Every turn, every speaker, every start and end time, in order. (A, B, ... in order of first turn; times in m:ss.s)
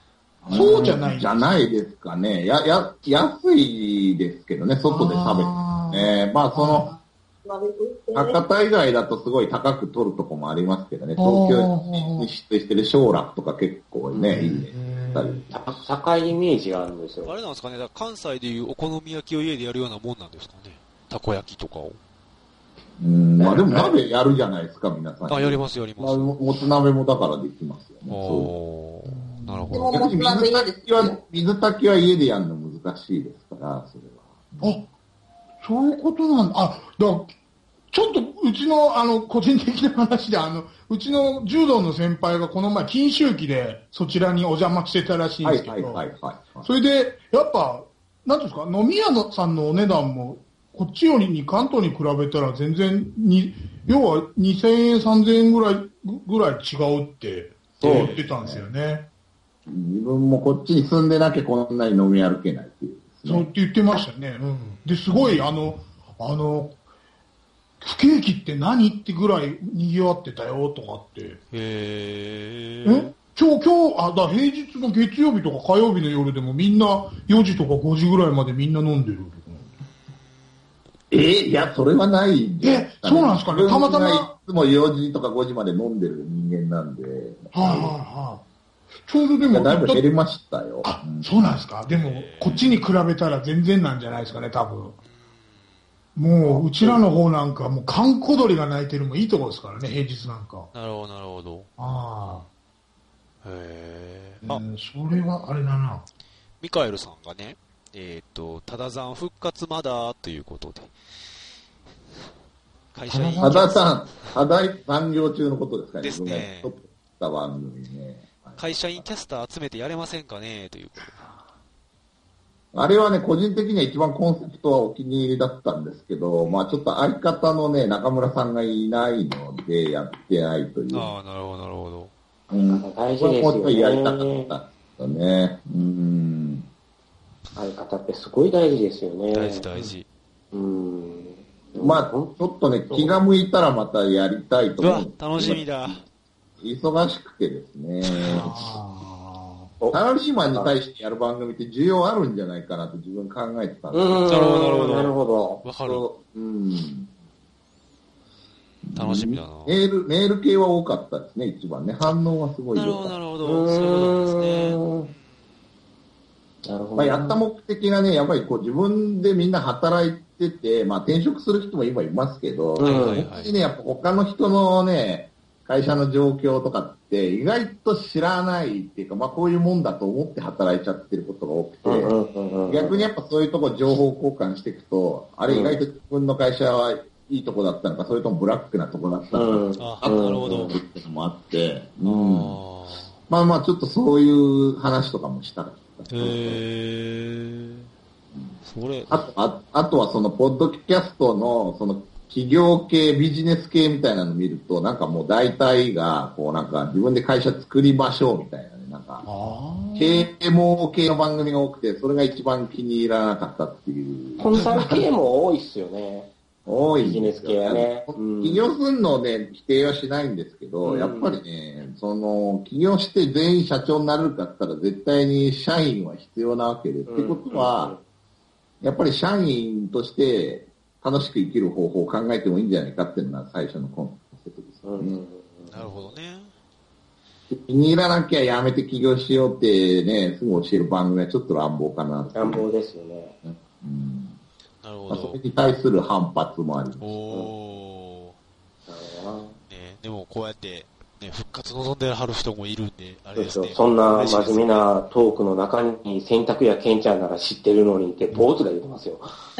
0:00.4-0:06.9 A
0:00.5-0:01.5 B
0:04.9-0:07.0 B
0:07.4-0:08.4 C
0:08.1-0:15.5 A
0:11.2-0:12.3 B
0:14.1-0:14.4 D
0:14.3-0:15.4 B
0:15.5-0:17.3 D
0:17.2-0:22.0 E
0:23.0-0:28.5 A
0:23.4-0:24.0 D
0:25.3-0:26.3 E
0:28.1-0:30.0 E
0:29.0-0:29.9 B
0:29.7-0:31.2 C
0:29.9-0:34.8 A
0:34.6-0:34.8 B
0:35.6-0:37.3 B
0:37.9-0:46.0 B
0:45.4-0:46.7 A
0:46.6-0:59.0 B
0:57.8-0:58.6 A
0:57.8-0:58.2 E
0:59.7-1:03.5 A
1:03.2-1:06.8 B
1:04.8-1:05.2 E
1:07.8-1:11.4 B
1:11.5-1:13.1 E
1:12.8-1:19.7 B
1:21.1-1:27.9 A
1:22.6-1:24.3 B
1:27.5-1:28.4 B
1:29.0-1:30.0 B
1:29.5-1:31.2 A
1:30.8-1:35.0 B
1:31.9-1:32.9 E
1:36.2-1:40.7 B
1:36.4-1:37.0 A
1:40.7-1:41.7 E
1:41.8-1:42.5 B
1:43.4-1:44.6 E
1:44.4-1:46.0 B
1:46.6-1:50.9 E
1:52.9-1:54.3 E
1:53.1-1:53.6 B
1:53.4-1:59.0 A
1:56.0-1:56.7 E
1:58.6-2:01.1 E
2:02.7-2:11.1 A
2:06.4-2:06.7 E
2:10.9-2:12.1 E
2:12.5-2:16.6 A
2:12.7-2:14.5 D
2:17.6-2:19.6 D
2:19.3-2:20.0 E
2:20.5-2:22.3 D
2:21.8-2:25.9 A
2:22.9-2:23.2 D
2:24.8-2:26.0 E
2:26.6-2:28.8 A
2:28.2-2:29.7 B
2:29.8-2:30.7 D
2:29.9-2:34.2 A
2:33.9-2:35.6 D
2:34.3-2:36.0 E
2:35.8-2:37.1 A
2:38.8-2:43.2 A
2:38.9-2:39.8 E
2:42.7-2:45.0 E
2:43.4-2:45.1 D
2:46.6-2:47.4 D
2:47.0-3:02.1 A
2:52.8-2:53.2 D
2:52.8-2:53.5 E
3:01.8-3:03.1 D
3:02.3-3:02.8 E
3:02.7-3:12.6 A
3:05.5-3:05.8 D
3:09.3-3:10.8 D
3:09.8-3:10.7 E
3:12.0-3:13.1 E
3:13.3-3:16.6 A
3:16.1-3:17.9 E
3:18.6-3:19.2 E
3:19.1-3:29.2 A
3:29.2-3:30.3 B
3:29.9-3:34.4 A
3:34.4-3:36.3 D
3:36.6-3:47.9 A
3:37.0-3:38.6 D
3:40.8-3:41.4 D
3:47.1-3:48.0 D
3:48.8-3:55.2 A
3:54.8-3:55.9 D
3:55.7-3:56.5 E
3:57.5-4:02.6 A
4:02.3-4:03.3 D
4:03.4-4:04.4 A
4:04.8-4:05.4 E
4:05.1-4:07.0 A
4:07.0-4:08.4 E
4:08.9-4:09.6 D
4:09.7-4:14.8 E
4:13.4-4:19.3 D